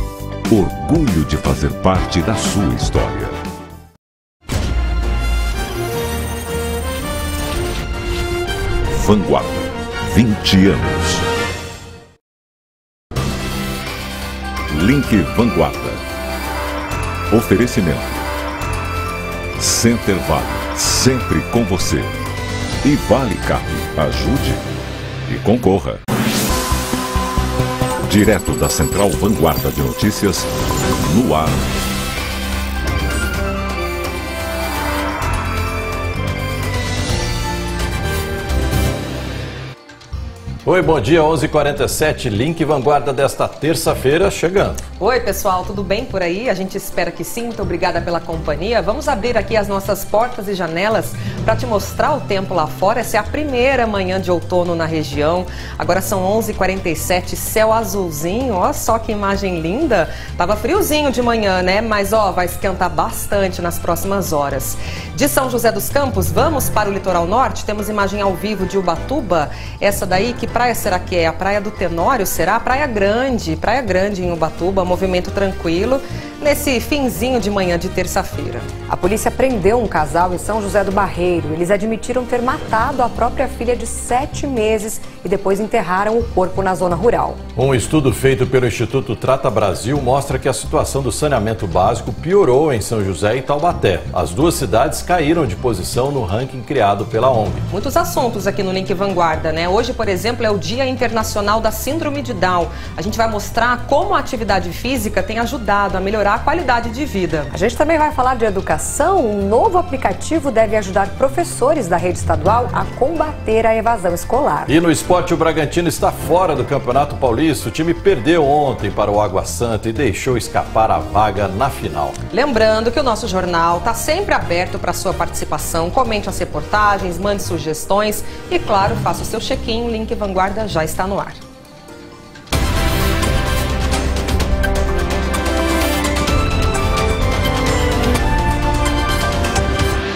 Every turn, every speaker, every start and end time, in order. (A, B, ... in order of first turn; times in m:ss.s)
0:00.5-0:03.4 A
0:08.9-0:11.2 A
0:14.7-0:16.0 A
0:17.3-0:18.3 A
0:19.6-0:22.2 A
0:22.8-0:24.6 A
0:25.3-0:26.0 A
0:28.0-0:31.8 A
0:40.6-0:44.8 B
0:45.0-1:18.7 C
1:18.9-1:27.4 D
1:27.6-1:37.6 B
1:37.7-1:47.5 C
1:47.5-1:54.7 D
1:54.7-2:02.2 B
2:02.3-2:11.4 C